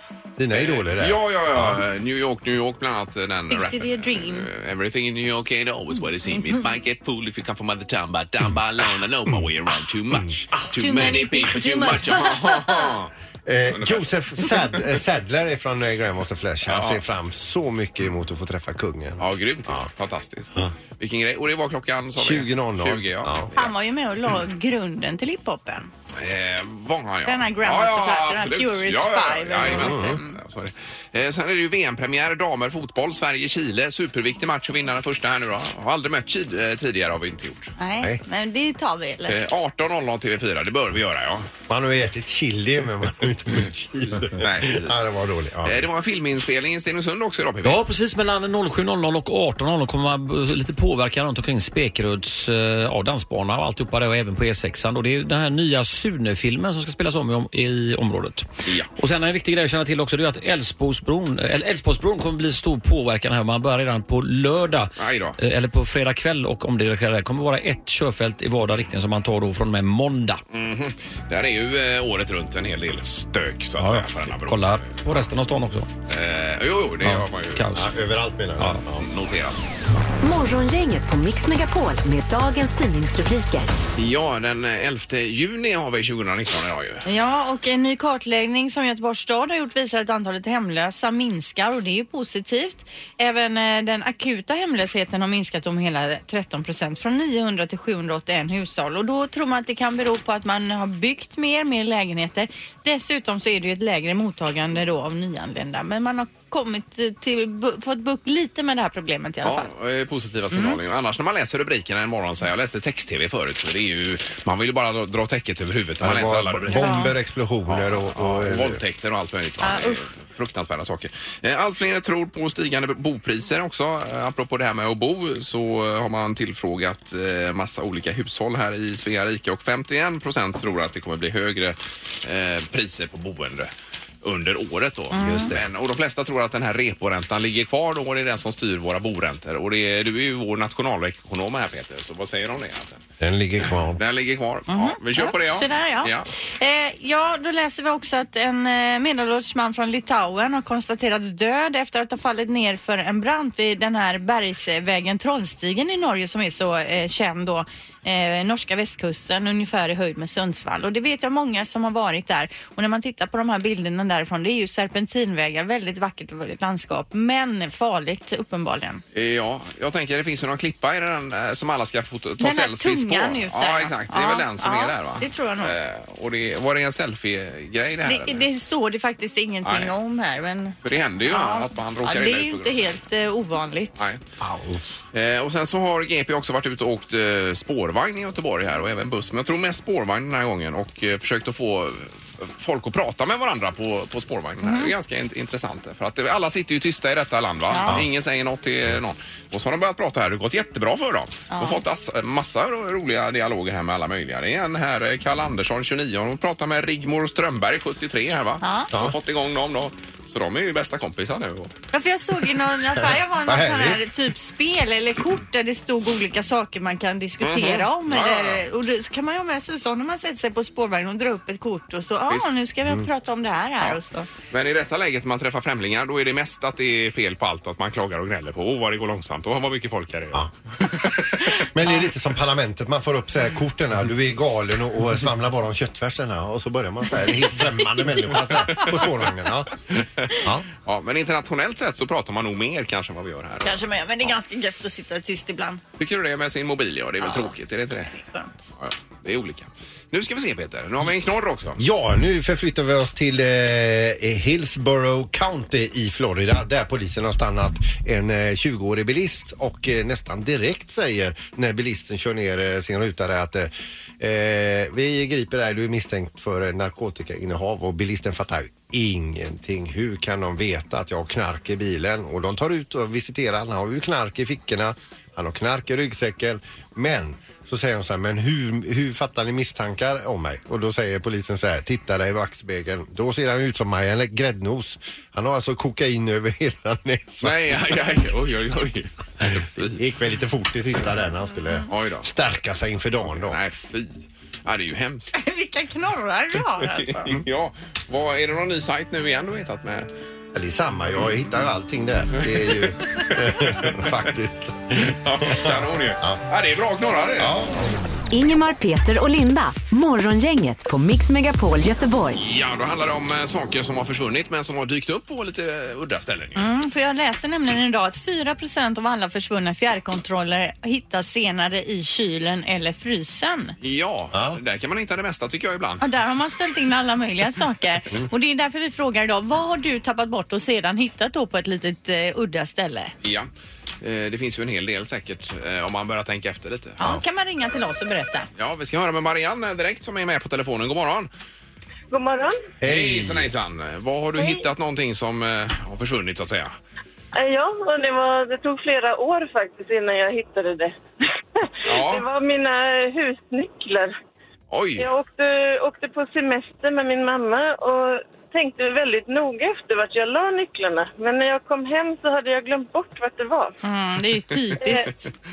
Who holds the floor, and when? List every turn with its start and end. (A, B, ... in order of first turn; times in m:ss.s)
0:00.4-0:01.8 A
0:00.5-0:13.1 B
0:03.5-0:04.5 C
0:10.7-0:12.9 C
0:13.4-0:19.9 A
0:13.7-0:14.8 B
0:16.7-0:17.0 B
0:19.2-0:23.7 B
0:22.2-0:23.5 A
0:23.5-0:25.9 C
0:26.1-0:37.7 B
0:27.2-0:30.4 C
0:29.6-0:30.2 A
0:37.8-0:39.4 C
0:39.3-0:41.5 B
0:41.7-0:45.8 A
0:44.4-0:45.0 B
0:45.6-0:47.8 B
0:47.6-0:58.5 D
0:59.0-1:10.4 D
1:05.0-1:05.4 B
1:10.5-1:15.0 B
1:13.8-1:15.9 D
1:16.1-1:17.6 B
1:17.0-1:17.8 D
1:17.7-1:19.0 A
1:19.0-1:19.6 B
1:20.2-1:23.7 E
1:24.0-1:27.0 B
1:27.0-1:49.7 C
1:49.4-1:57.1 B
1:50.5-1:50.8 C
1:56.0-1:58.8 A
1:56.8-1:57.1 C
1:57.6-2:13.7 B
1:59.6-2:00.0 C
2:14.2-2:23.0 B
2:15.1-2:15.5 C
2:15.2-2:15.6 A
2:23.2-2:24.0 A
2:23.9-2:26.3 B
2:24.7-2:49.0 C
2:49.1-2:58.4 B
2:52.4-2:55.7 C
2:58.0-3:00.8 C
2:59.6-2:59.9 B
3:00.8-3:02.8 B
3:01.3-3:04.1 C
3:04.4-3:04.8 A
3:05.1-3:31.7 B
3:14.6-3:14.9 C
3:17.7-3:18.0 C
3:21.5-3:21.8 C
3:28.6-3:28.9 C
3:31.9-3:44.3 C
3:33.0-3:34.0 A
3:37.4-3:38.6 B
3:44.5-3:51.7 B
3:51.7-3:59.7 A
4:00.0-4:03.8 B
4:00.4-4:00.6 A
4:03.6-4:05.8 C
4:06.0-4:08.2 B
4:07.2-4:07.5 C
4:08.1-4:08.5 C
4:08.8-4:11.8 B
4:11.8-4:47.8 A
4:47.4-4:50.0 B
4:49.4-4:53.6 A
4:51.9-4:52.3 B
4:53.4-4:55.4 B
4:55.3-4:57.2 C
4:56.8-5:00.1 B
5:00.5-5:06.4 A
5:02.4-5:02.8 B
5:03.5-5:04.0 B
5:05.0-5:07.5 B
5:07.4-5:07.9 A
5:08.3-5:12.4 E
5:12.4-5:16.7 B
5:16.6-5:23.7 C
5:23.8-5:26.0 B
5:24.3-5:24.6 A
5:26.0-5:33.1 C
5:33.2-5:33.5 B
5:34.0-5:37.0 B
5:37.0-5:38.5 C
5:38.6-5:41.3 B
5:42.1-5:42.6 F
5:42.8-5:43.5 A
5:42.8-5:46.7 B
5:44.4-5:44.6 F
5:47.3-5:51.0 F
5:51.6-5:54.1 F
5:51.8-5:52.2 B
5:54.7-5:55.1 B
5:55.0-6:03.7 F
6:03.8-6:05.2 C
6:04.8-6:05.1 F